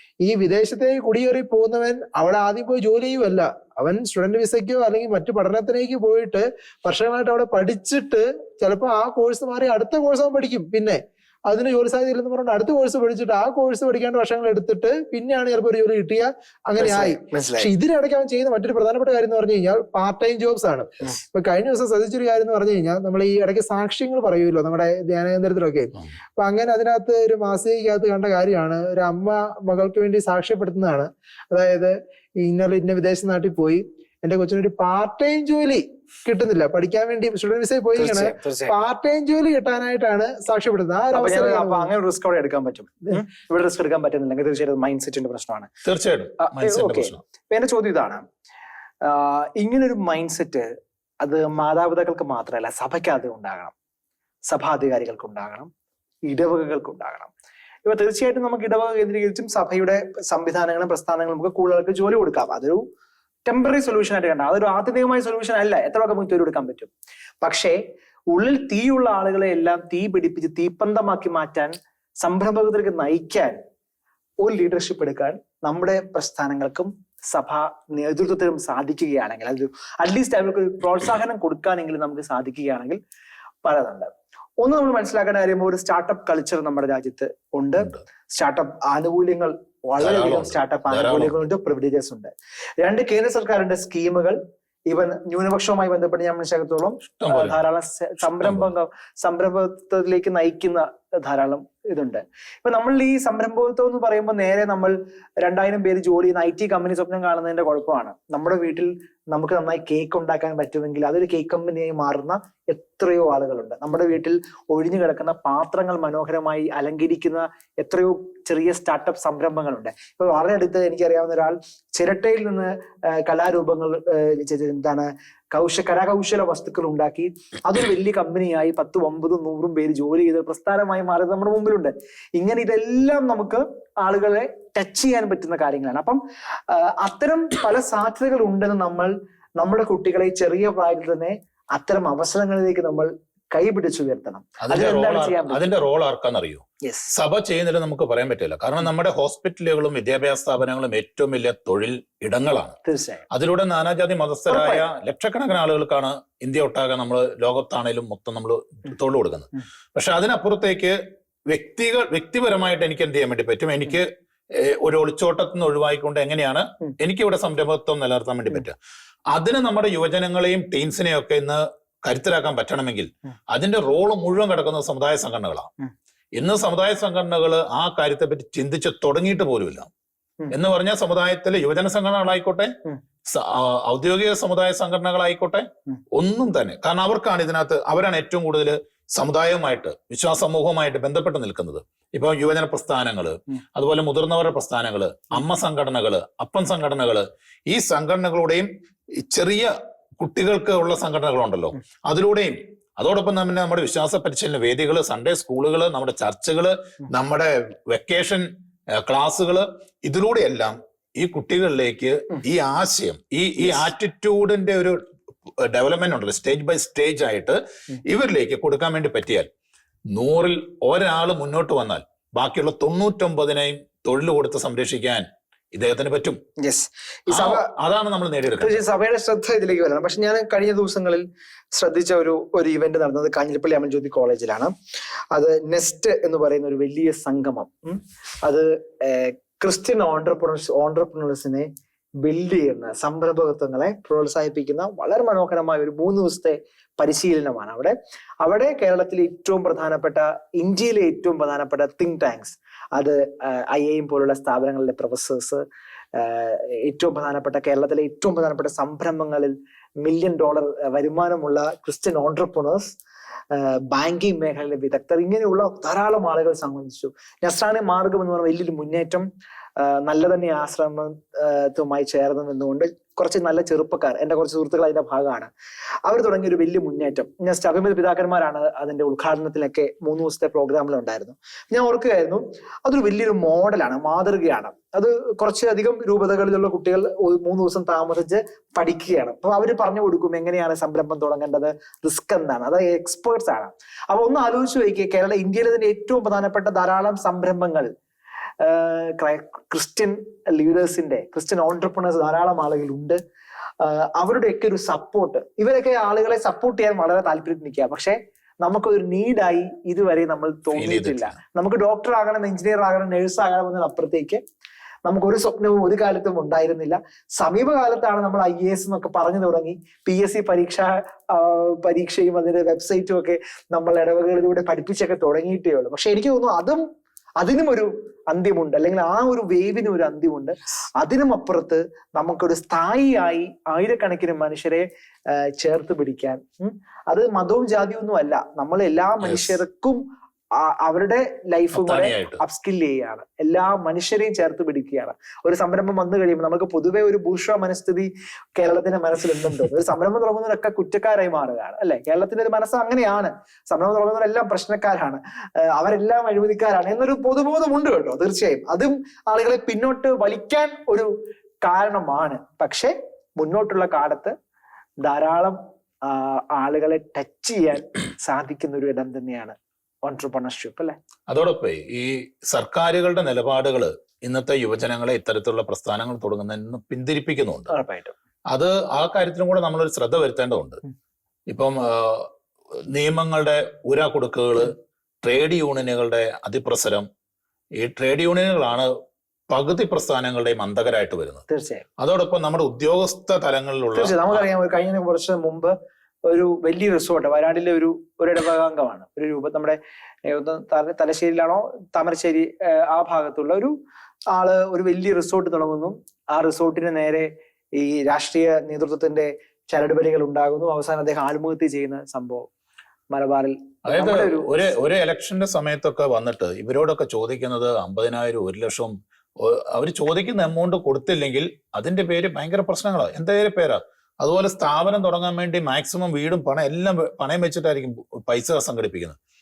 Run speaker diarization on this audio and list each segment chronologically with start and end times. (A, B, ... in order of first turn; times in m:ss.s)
0:00.2-0:41.9 A
0:16.8-0:17.7 B
0:38.0-0:38.7 B
0:41.1-0:45.7 B
0:45.8-0:47.2 C
0:46.4-0:48.2 B
0:49.0-0:50.7 B
0:51.2-0:53.7 B
0:54.5-0:55.7 B
0:56.3-0:57.3 B
0:57.8-1:02.8 B
1:03.4-1:06.9 B
1:07.4-1:07.8 B
1:08.3-1:13.6 B
1:14.4-1:23.0 B
1:23.6-1:24.1 B
1:24.6-2:25.8 B
1:30.0-1:31.3 C
1:37.2-1:37.6 C
1:38.4-1:38.7 C
2:24.6-2:32.8 C
2:26.8-2:27.1 B
2:32.8-2:33.2 B
2:33.3-2:41.0 C
2:34.5-2:34.8 B
2:41.5-2:48.8 C
2:49.3-2:55.7 C
2:56.4-2:59.9 C
3:00.5-3:02.7 C
3:03.2-3:35.0 C
3:33.6-3:33.9 B
3:35.6-3:39.5 C
3:40.1-3:46.4 C
3:46.6-3:47.7 B
3:47.3-3:48.8 C
3:48.6-3:54.7 B
3:55.3-4:01.7 B
4:02.2-4:15.6 B
4:16.1-4:23.0 B
4:23.5-4:29.2 B
4:29.8-4:35.5 B
4:36.0-4:57.9 B
4:58.6-5:03.2 B
5:03.8-5:14.4 B
5:10.7-5:11.4 C
5:15.0-5:26.8 B
5:27.4-5:40.0 B
5:39.2-5:39.5 C
5:40.6-6:01.1 B
5:41.7-5:42.4 C
6:01.6-6:04.3 B
6:05.0-6:11.0 B
6:11.3-6:17.7 C
6:17.7-6:18.1 B
6:18.5-6:20.8 C
6:21.5-6:22.3 C
6:22.9-6:27.1 C
6:27.8-6:28.9 C
6:29.5-6:31.4 C
6:31.5-6:31.8 B
6:32.0-6:34.4 C
6:33.9-6:35.7 B
6:36.3-6:43.7 B
6:44.3-6:52.5 B
6:53.1-6:54.6 B
6:53.8-7:09.2 C